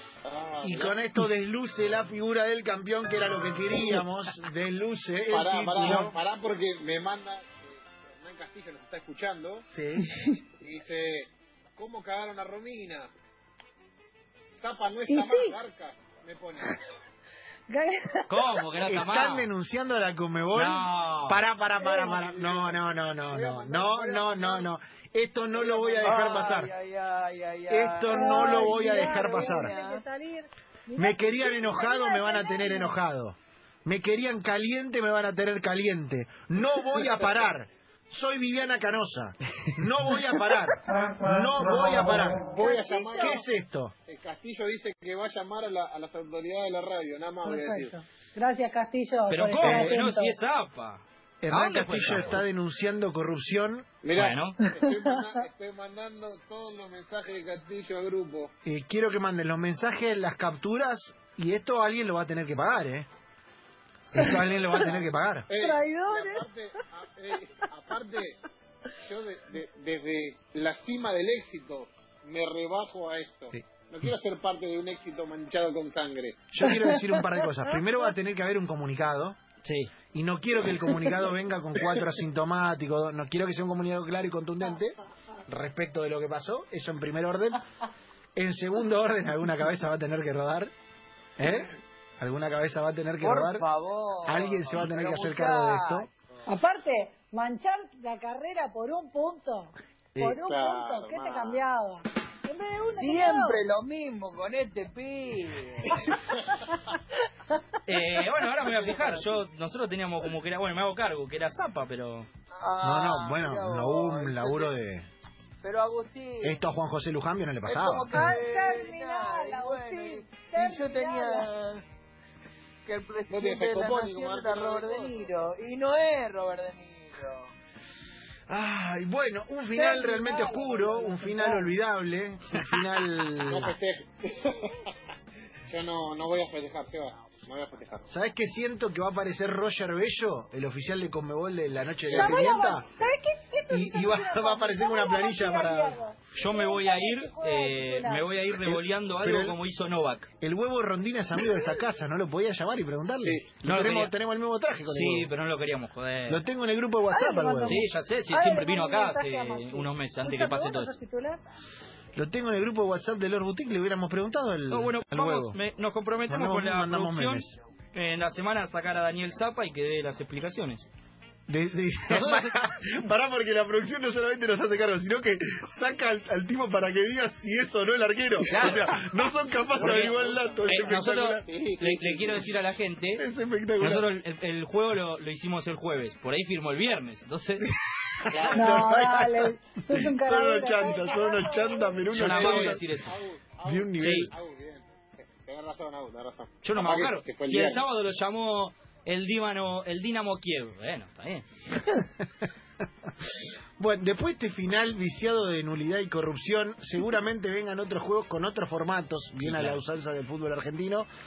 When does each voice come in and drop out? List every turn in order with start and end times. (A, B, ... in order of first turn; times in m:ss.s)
0:00.2-0:01.0 A
0:00.6-0:06.1 B
0:05.3-0:09.6 A
0:09.7-0:10.1 B
0:10.0-0:10.4 C
0:10.6-0:13.1 A
0:14.5-0:16.7 A
0:15.1-0:15.6 C
0:17.7-0:18.5 C
0:18.3-0:19.5 D
0:18.8-0:26.7 B
0:20.5-0:21.4 D
0:21.8-0:22.2 C
0:22.1-0:24.7 A
0:25.5-0:30.0 E
0:27.7-0:29.8 B
0:28.1-0:32.9 C
0:31.0-0:42.5 B
0:41.8-0:43.4 A
0:42.6-0:43.4 C
0:43.2-0:43.9 B
0:44.1-0:47.9 A
0:47.4-0:50.4 C
0:49.3-0:52.4 D
0:49.6-0:50.0 B
0:51.4-0:53.9 B
0:54.0-0:58.5 A
0:54.1-0:54.6 D
0:54.6-0:55.4 C
0:58.6-1:03.1 B
1:04.1-1:05.5 B
1:04.1-1:04.9 C
1:04.4-1:08.4 A
1:05.6-1:06.5 C
1:09.0-1:16.4 A
1:16.5-1:19.4 B
1:16.6-1:17.4 C
1:19.6-1:19.9 D
1:20.1-1:27.6 B
1:28.4-1:30.7 B
1:31.4-1:33.7 B
1:33.2-1:36.1 E
1:34.2-1:36.1 B
1:36.4-1:43.6 C
1:40.1-1:40.4 B
1:40.4-1:41.6 A
1:42.8-1:46.0 E
1:47.8-1:52.3 D
1:52.5-1:54.7 E
1:52.8-1:55.1 B
1:55.6-1:56.6 E
1:56.4-1:58.4 B
1:57.6-2:01.8 E
1:58.1-2:01.5 C
2:02.8-2:07.5 E
2:03.3-2:05.3 A
2:08.5-2:13.8 B
2:09.7-2:11.7 C
2:12.7-2:13.7 D
2:13.5-2:14.8 A
2:15.6-2:18.1 A
2:18.1-2:22.8 B
2:22.0-2:22.4 A
2:22.1-2:28.3 C
2:23.7-2:26.0 B
2:26.3-2:30.3 D
2:28.6-2:29.6 B
2:30.4-2:35.3 B
2:33.2-2:33.6 A
2:33.6-2:34.1 D
2:34.9-2:36.4 D
2:36.3-2:37.8 B
2:37.1-2:41.4 C
2:37.6-2:40.9 D
2:42.1-2:45.6 B
2:44.7-2:50.9 D
2:46.3-2:47.5 B
2:51.5-3:01.4 B
2:52.1-2:52.6 D
2:58.4-2:59.0 D
2:59.8-3:03.2 D
3:00.0-3:00.6 A
3:01.4-3:02.6 A
3:03.2-3:04.1 B
3:03.8-3:07.7 D
3:08.1-3:12.8 B
3:08.3-3:08.9 D
3:08.5-3:12.2 C
3:12.1-3:13.2 D
3:12.4-3:17.8 A
3:13.6-3:14.3 B
3:14.0-3:14.3 D
3:16.6-3:21.5 D
3:21.8-3:22.2 B
3:23.8-3:31.1 B
3:29.4-3:29.8 D